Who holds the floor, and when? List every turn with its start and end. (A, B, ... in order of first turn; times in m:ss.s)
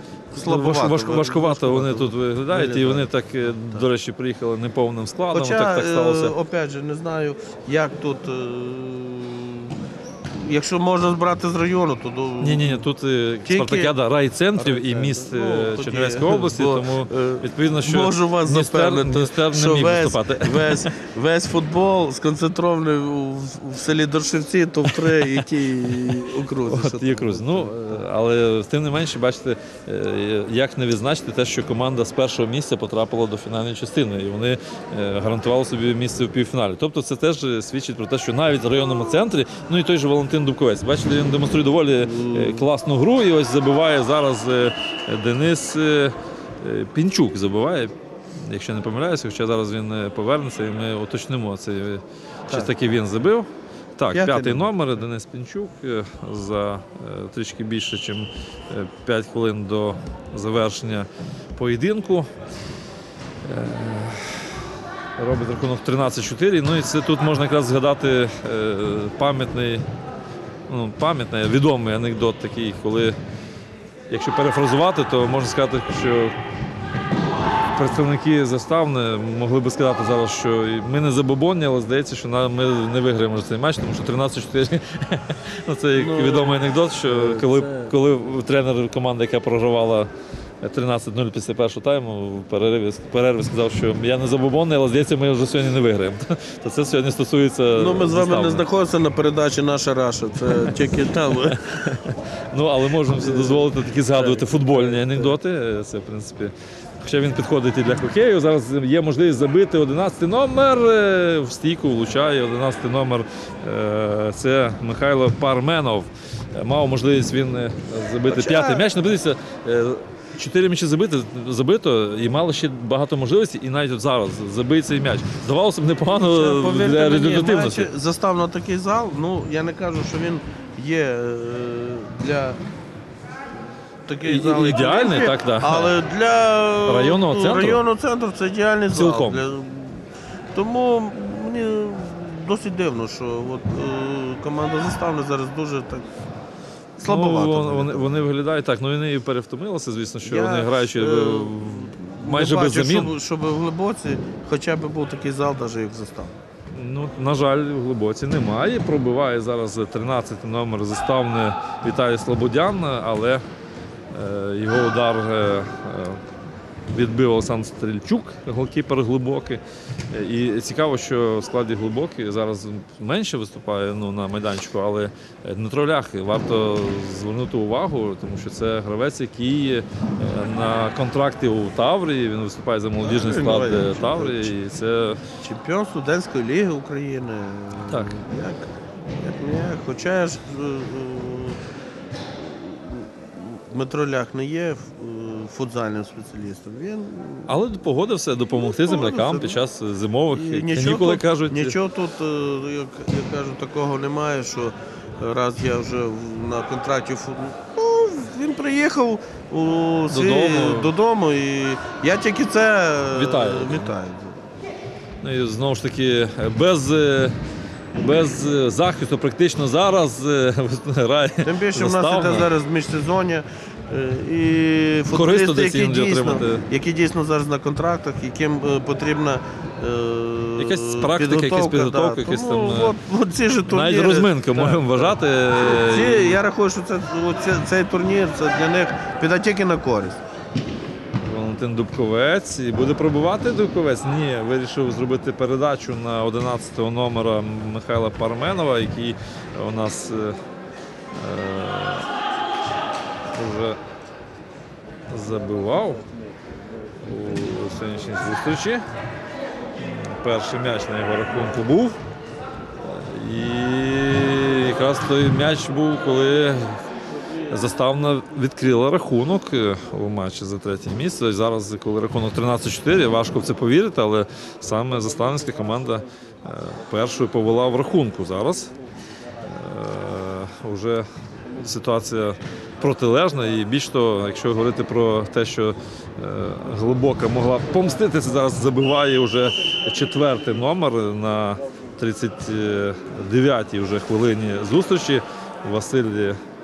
0:00.3-0:03.1 A
0:00.3-0:06.3 B
0:05.3-0:12.8 A
0:12.4-0:20.9 B
0:13.4-0:13.9 A
0:14.5-0:28.0 A
0:24.8-0:25.5 B
0:26.1-1:02.3 B
0:42.0-0:42.7 A
0:54.1-0:54.7 A
1:03.4-1:04.6 B
1:05.2-1:09.8 B
1:10.7-1:13.2 B
1:14.1-1:16.4 B
1:17.7-1:30.1 B
1:25.9-1:27.9 A
1:30.6-1:38.6 B
1:37.7-1:41.6 A
1:41.4-2:07.9 B
1:43.1-1:45.4 A
1:58.3-1:58.9 A
2:06.1-2:12.6 A
2:14.1-2:26.1 A
2:14.2-2:15.9 B
2:16.9-2:17.8 B
2:18.9-2:19.4 B
2:27.0-2:28.2 A
2:27.0-2:33.1 B
2:30.2-2:36.4 A
2:36.7-2:43.4 B
2:44.1-2:46.2 B
2:46.9-3:05.2 B
3:03.0-3:04.5 A
3:05.4-3:11.6 A
3:12.3-3:17.6 A
3:17.5-3:21.8 B
3:18.6-3:19.6 A
3:20.3-3:34.4 A
3:30.1-3:30.9 B
3:33.1-3:33.9 B
3:35.2-3:37.4 B
3:37.9-3:42.5 B
3:41.4-4:00.2 A
3:45.1-3:46.6 B
3:50.6-3:52.9 B
3:53.7-3:56.4 B
4:01.2-4:10.4 B
4:11.1-4:12.1 B
4:13.3-4:13.8 B
4:15.1-4:16.0 B
4:17.0-4:18.8 B
4:19.8-4:22.0 B
4:22.8-4:26.8 B
4:27.5-4:38.7 B
4:39.4-4:41.0 B
4:41.6-4:56.4 B